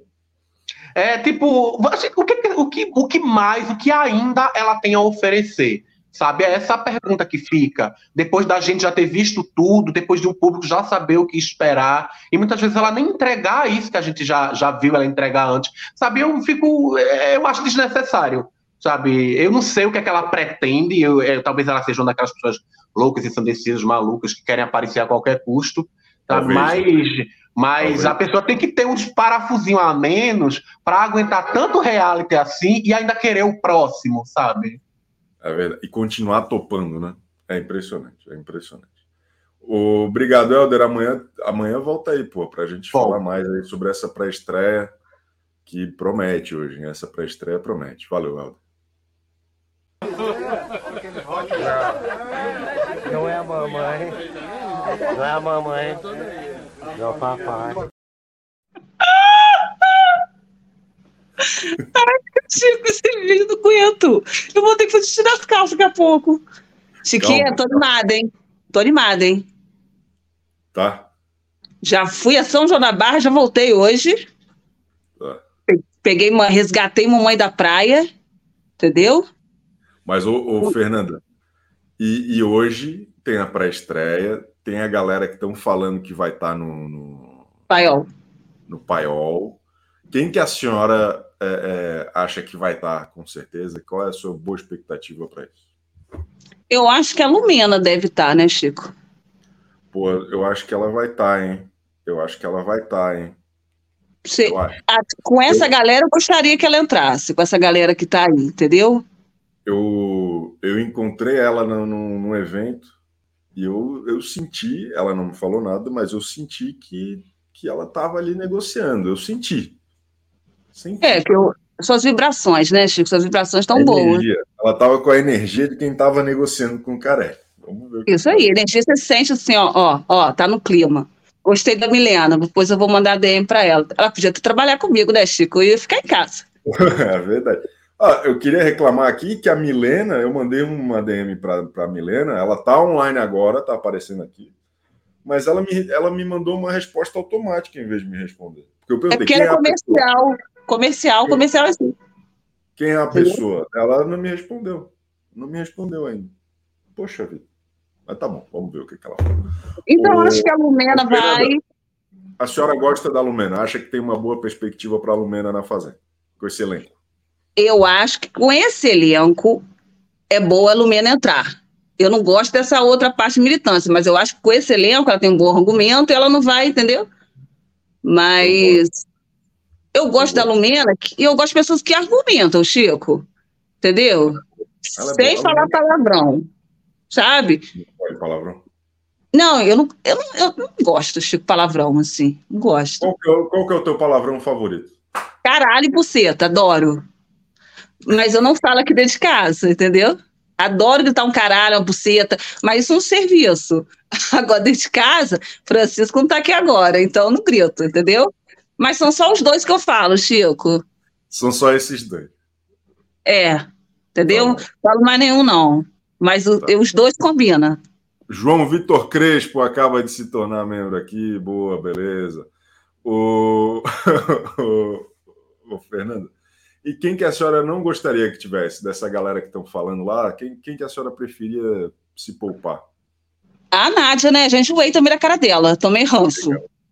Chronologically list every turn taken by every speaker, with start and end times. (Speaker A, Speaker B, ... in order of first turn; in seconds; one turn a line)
Speaker A: 0.9-34.8
Speaker B: 26.3-26.9
Speaker B: 27.8-28.2
Speaker B: 35.4-38.9
Speaker B: 39.6-44.9
Speaker A: 42.9-43.2
Speaker B: 45.6-48.6
Speaker C: 51.5-52.0
Speaker C: 53.0-54.2
Speaker C: 55.1-56.1
Speaker C: 56.9-57.8
Speaker D: 59.0-59.6
Speaker D: 61.7-66.4
Speaker D: 67.0-69.4
Speaker B: 67.2-67.8
Speaker B: 70.7-71.1
Speaker D: 71.8-74.2
Speaker D: 75.7-78.1
Speaker D: 78.8-79.2
Speaker B: 80.0-81.2
Speaker B: 82.0-87.5
Speaker D: 87.7-88.1
Speaker B: 88.7-89.6
Speaker B: 90.1-95.6
Speaker D: 96.7-98.9
Speaker B: 99.9-103.3
Speaker D: 104.2-109.0
Speaker B: 104.4-104.8
Speaker B: 109.7-112.9
Speaker B: 113.5-119.8
Speaker B: 120.7-121.2
Speaker D: 121.0-124.2
Speaker B: 123.7-128.5
Speaker D: 128.1-136.4
Speaker B: 136.7-144.5
Speaker B: 145.2-150.0
Speaker D: 149.1-151.9
Speaker B: 152.8-156.3
Speaker B: 156.9-157.4
Speaker B: 158.1-161.5
Speaker D: 159.9-161.6
Speaker B: 162.4-166.9
Speaker D: 167.6-169.6
Speaker D: 170.3-177.1
Speaker D: 178.0-178.9
Speaker B: 178.4-178.8
Speaker D: 179.9-183.2
Speaker B: 180.2-180.5
Speaker D: 183.8-184.4
Speaker B: 184.9-185.7
Speaker D: 185.0-186.4
Speaker D: 187.1-187.7
Speaker B: 187.7-188.6
Speaker D: 189.3-193.1
Speaker B: 193.0-194.9
Speaker D: 195.4-197.0
Speaker D: 198.1-210.8
Speaker B: 211.3-212.3
Speaker D: 213.2-217.8
Speaker B: 214.3-214.6
Speaker B: 218.3-222.5
Speaker B: 223.0-225.1
Speaker B: 225.6-226.3
Speaker B: 226.8-232.8
Speaker D: 233.7-236.6
Speaker B: 236.3-236.6